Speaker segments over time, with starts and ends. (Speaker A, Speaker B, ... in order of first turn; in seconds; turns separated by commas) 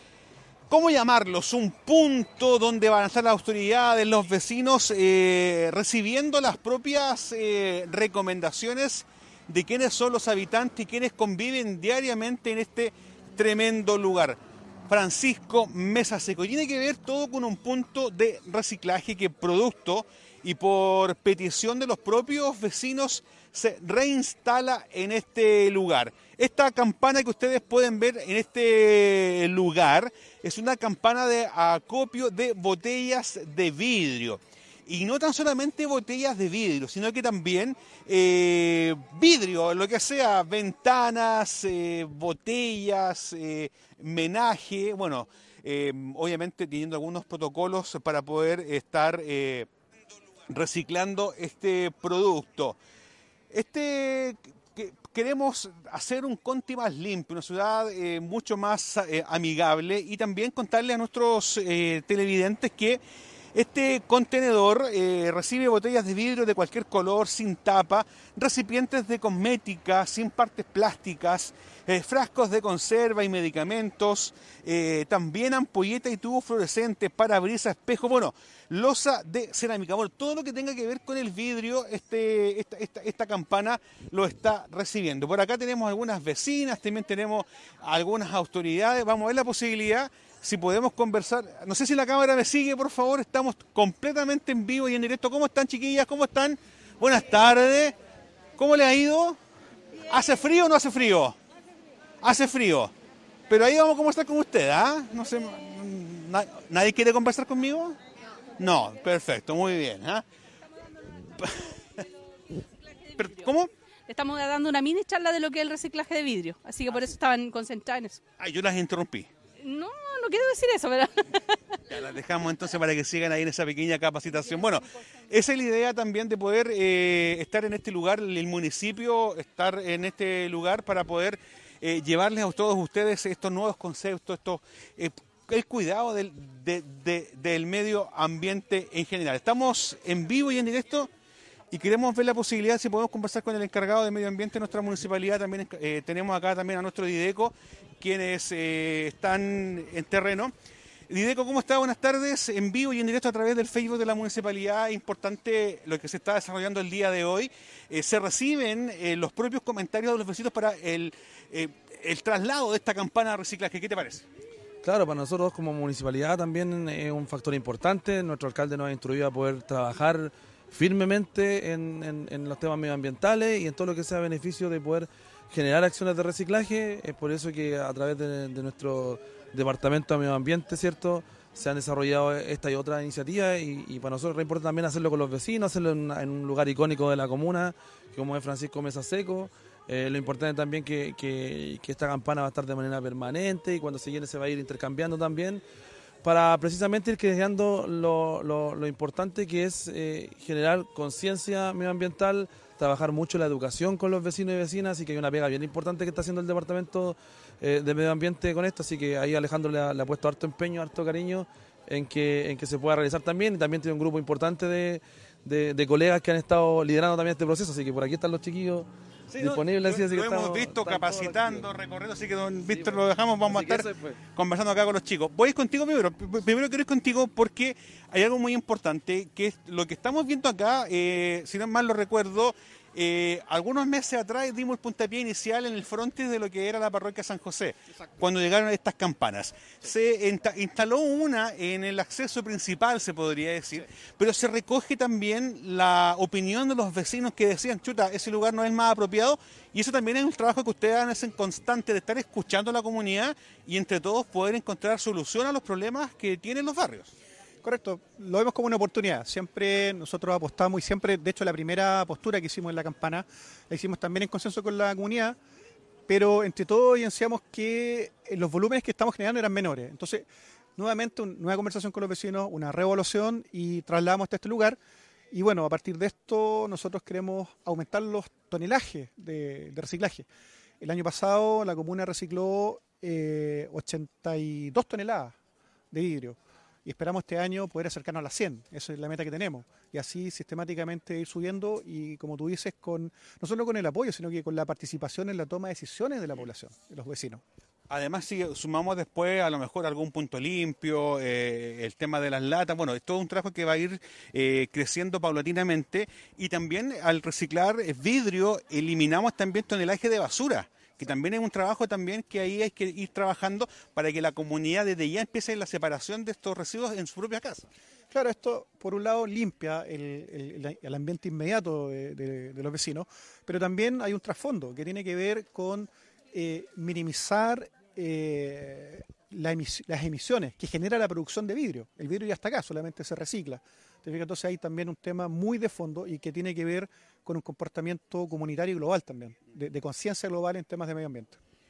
Speaker A: 0.7-49.7, Speaker A: 50.5-52.8, Speaker A: 53.5-63.0, Speaker A: 63.5-98.0, Speaker A: 98.6-99.4, Speaker A: 100.1-101.4, Speaker A: 102.2-102.9, Speaker A: 103.5-108.0, Speaker A: 108.6-110.2, Speaker A: 111.4-111.8, Speaker B: 113.1-113.5, Speaker A: 113.2-113.7, Speaker B: 114.1-118.2, Speaker A: 118.4-119.3, Speaker B: 119.6-121.8, Speaker A: 121.9-141.1, Speaker A: 141.7-150.5, Speaker A: 151.1-164.2, Speaker C: 164.8-195.6, Speaker C: 196.2-221.7, Speaker A: 219.3-257.1, Speaker C: 222.7-224.2, Speaker D: 257.6-265.4, Speaker D: 266.1-270.2, Speaker D: 270.8-274.8, Speaker D: 275.3-280.2, Speaker D: 280.8-285.3, Speaker D: 285.9-297.4, Speaker A: 297.9-317.7, Speaker D: 318.1-341.4